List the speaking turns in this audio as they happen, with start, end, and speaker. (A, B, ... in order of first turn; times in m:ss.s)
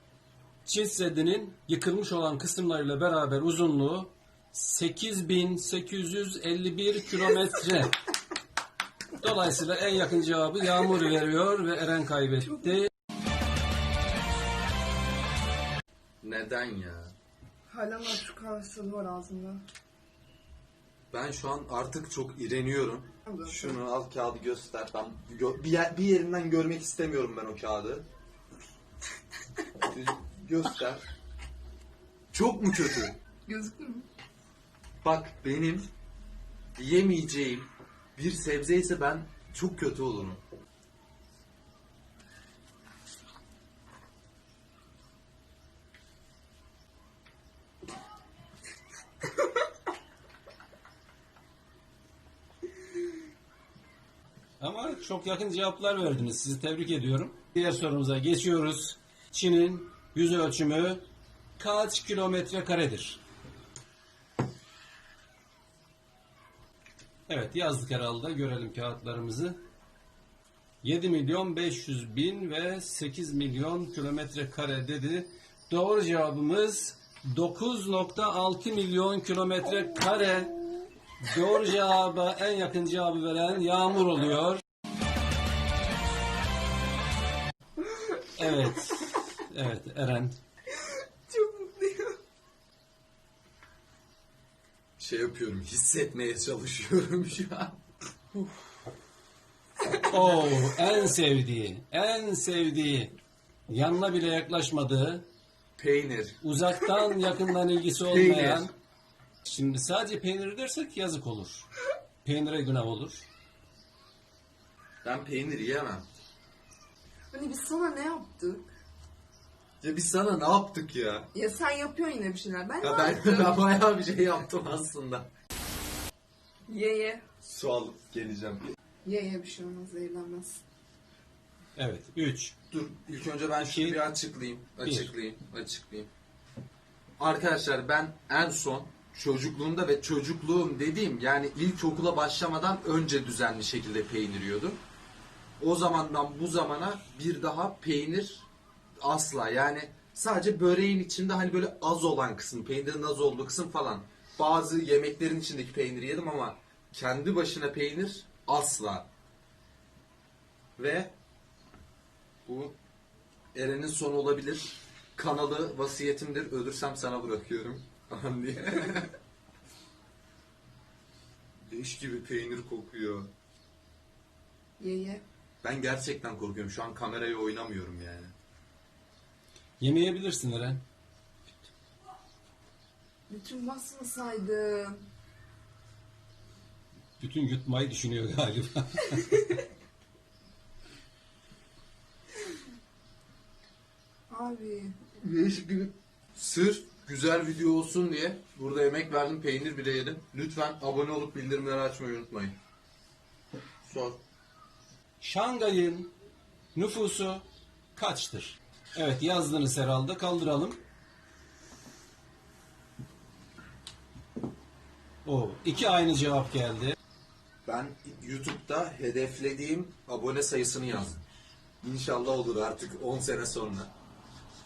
0:00.6-0:08.0 A
0:09.2-0:12.9 A
0:16.2-0:17.1 B
0:17.7-0:19.6 C
0:21.1-0:28.1 B
0:29.8-0:31.1 B
0:32.3-0:33.2 B
0:33.4-0:34.1 C
0:35.0-0:35.9 B
0:36.8-0:40.4 B
0:54.6-1:01.0 A
1:01.6-1:03.2 A
1:07.3-1:09.6 A
1:10.8-1:20.6 A
1:21.2-1:24.6 A
1:28.3-1:30.4 A
1:31.3-1:32.2 C
1:35.0-1:37.8 B
1:40.0-1:43.2 A
1:43.7-1:45.3 A
1:45.8-1:46.4 B
1:46.4-1:48.7 A
1:48.0-1:48.7 B
1:49.4-1:51.6 A
1:52.2-1:53.3 A
1:55.0-1:56.1 B
1:57.3-1:58.7 C
1:59.8-2:01.3 B
2:01.3-2:03.6 C
2:02.8-2:05.3 B
2:06.7-2:07.2 C
2:07.4-2:08.7 B
2:09.0-2:10.6 C
2:11.8-2:12.6 A
2:12.7-2:16.1 B
2:13.6-2:14.0 A
2:14.8-2:15.1 A
2:17.2-2:24.8 B
2:25.6-2:28.5 B
2:29.0-2:39.1 B
2:40.8-2:41.1 B
2:42.4-2:42.8 B
2:43.5-2:49.1 B
2:51.6-2:53.3 B
2:54.8-2:55.2 C
2:55.6-2:58.3 B
2:59.8-3:00.8 A
3:03.3-3:05.0 C
3:07.2-3:09.4 A
3:14.3-3:15.0 C
3:15.2-3:22.6 B
3:23.8-3:24.2 B
3:25.2-3:26.1 A
3:26.7-3:30.8 A
3:35.2-3:37.0 A
3:37.6-3:41.2 B
3:41.8-3:43.9 B